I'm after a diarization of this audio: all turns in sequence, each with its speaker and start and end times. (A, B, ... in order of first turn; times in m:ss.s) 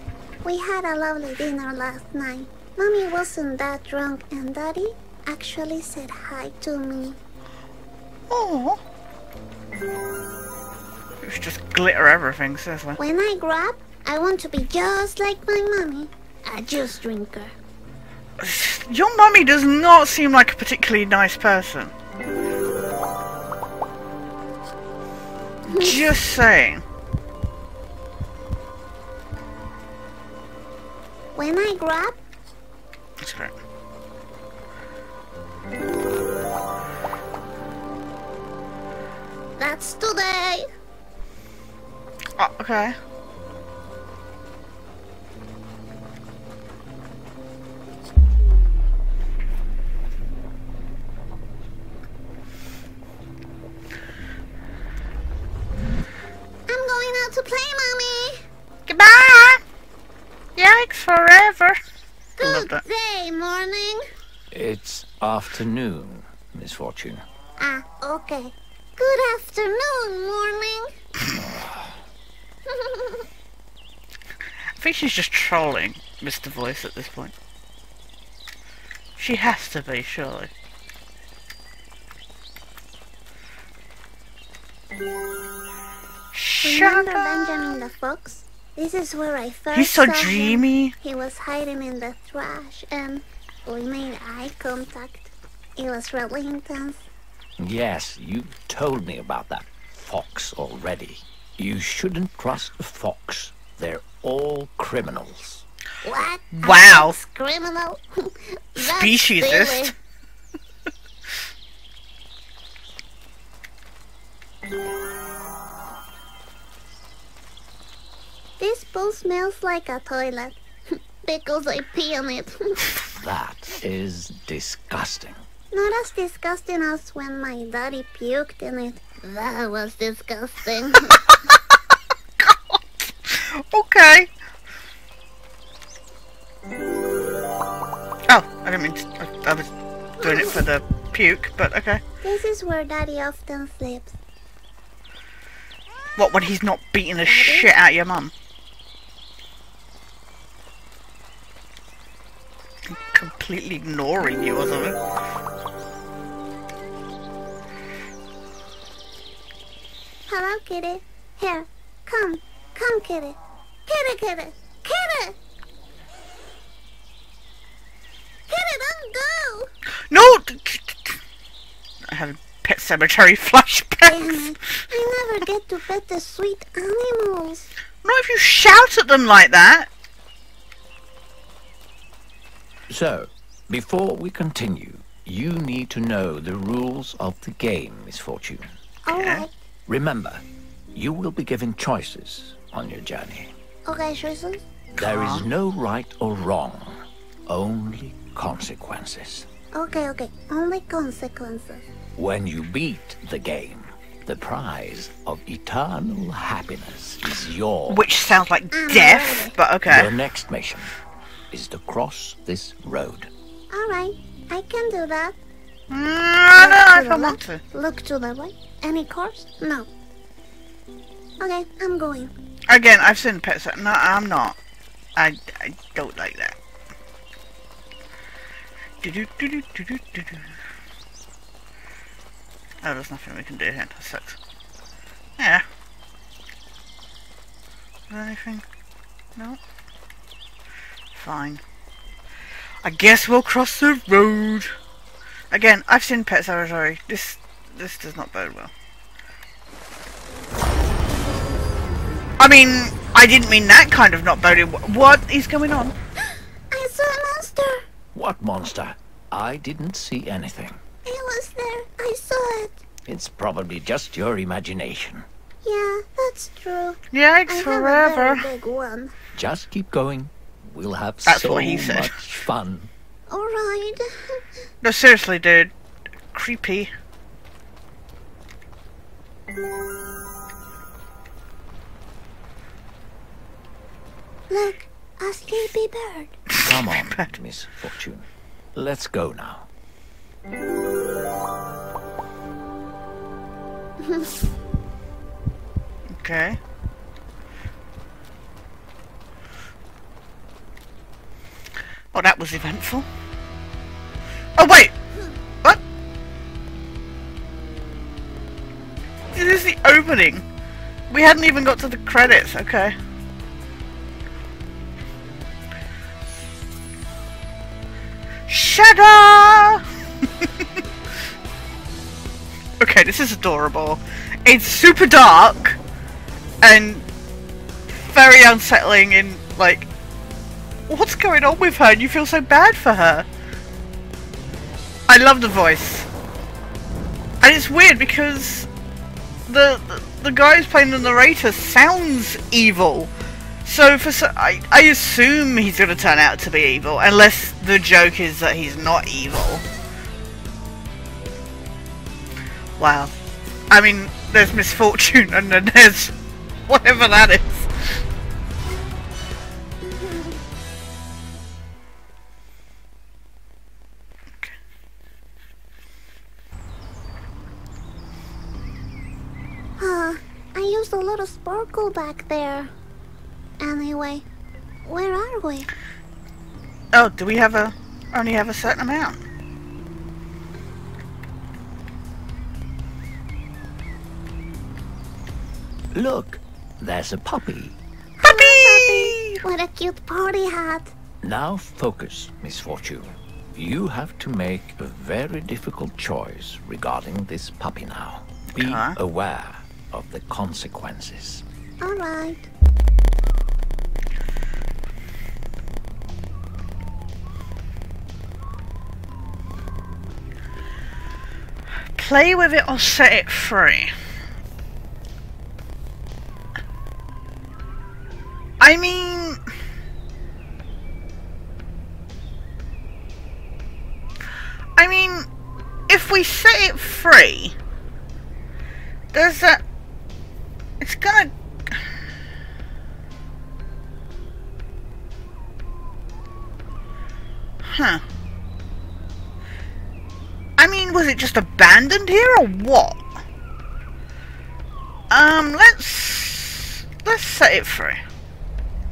0:00.4-0:07.2 A
0:08.3-0:08.8 B
0:11.2-0:13.0 B
0:13.0-0:17.5 A
0:18.4-0:21.9 B
0:25.7-0:26.1 A
0:25.8-0:26.8 B
0:31.4-0:32.2 A
0:33.2-0:33.5 B
0:39.6-0:40.7 A
0:42.4-0:43.0 B
0:56.7-0:58.4 A
0:58.9-0:59.6 B
1:00.6-1:01.8 B
1:02.4-1:02.8 B
1:02.4-1:04.1 A
1:04.5-1:07.2 C
1:07.6-1:10.9 A
1:11.3-1:12.0 C
1:12.7-1:13.3 A
1:14.8-1:17.3 B
1:19.2-1:20.5 B
1:26.3-1:27.8 B
1:26.6-1:37.0 A
1:29.7-1:30.9 B
1:37.6-1:45.6 C
1:46.0-1:49.9 A
1:46.6-1:47.2 B
1:48.8-1:49.9 B
1:58.6-2:02.9 A
2:03.1-2:05.4 C
2:05.7-2:11.2 A
2:11.1-2:11.5 B
2:12.4-2:14.3 B
2:18.3-2:22.0 B
2:20.2-2:20.6 A
2:22.2-2:24.2 A
2:26.2-2:28.3 B
2:27.3-2:27.7 A
2:32.9-2:35.0 B
2:40.3-2:45.4 A
2:48.5-2:49.7 A
2:50.1-2:51.2 B
2:52.1-2:54.5 B
2:54.1-2:57.7 A
2:58.0-2:59.9 B
3:02.9-3:08.8 C
3:09.1-3:09.5 A
3:09.1-3:09.5 B
3:09.9-3:13.5 C
3:13.9-3:14.6 A
3:14.9-3:19.5 C
3:15.0-3:15.4 B
3:19.7-3:21.9 A
3:22.2-3:28.0 C
3:27.9-3:30.1 B
3:28.7-3:29.6 A
3:29.9-3:30.9 C
3:31.5-3:33.3 C
3:33.7-3:35.4 A
3:35.9-3:37.6 B
3:36.6-3:39.9 A
3:41.4-3:42.3 A
3:42.7-3:44.6 B
3:45.2-3:46.6 B
3:49.0-3:50.4 B
3:52.8-3:54.4 B
3:55.4-3:55.6 B
3:58.1-3:58.6 B
4:01.1-4:01.6 B
4:02.8-4:04.8 B
4:05.5-4:08.7 B
4:12.4-4:16.0 B
4:16.7-4:17.8 A
4:18.1-4:20.8 C
4:21.0-4:22.8 A
4:23.1-4:25.3 C
4:25.6-4:29.1 A
4:27.1-4:28.5 B
4:29.4-4:32.9 C
4:31.3-4:32.2 B
4:33.3-4:34.4 A
4:34.8-4:35.7 B
4:36.3-4:36.9 B
4:44.5-4:46.4 A
4:46.5-4:47.3 B
4:46.6-4:49.7 C
4:56.2-4:56.6 B
5:02.1-5:03.1 B
5:04.6-5:04.9 B
5:09.3-5:10.4 B
5:11.1-5:13.0 B
5:18.5-5:19.8 B
5:22.8-5:25.8 B
5:26.6-5:27.1 B
5:28.1-5:29.9 B
5:30.9-5:33.3 B
5:35.1-5:36.1 B
5:37.4-5:38.7 B
5:39.5-5:43.1 B
5:43.6-5:49.6 B
5:52.8-5:53.1 B
5:53.7-5:56.2 B
5:56.7-5:57.7 B
6:00.0-6:00.2 A
6:09.8-6:12.7 A
6:13.6-6:14.3 A
6:14.9-6:15.7 A
6:16.9-6:19.2 B
6:25.9-6:27.8 C
6:28.2-6:31.0 A
6:28.2-6:29.4 B
6:31.2-6:41.4 C
6:38.6-6:39.0 B
6:41.8-6:42.5 A
6:52.0-6:53.9 B
6:58.6-6:59.4 B
7:04.8-7:05.3 B
7:05.9-7:07.6 B
7:09.1-7:09.6 B
7:10.8-7:11.8 B
7:17.6-7:18.0 B
7:20.6-7:23.0 B
7:25.1-7:28.0 B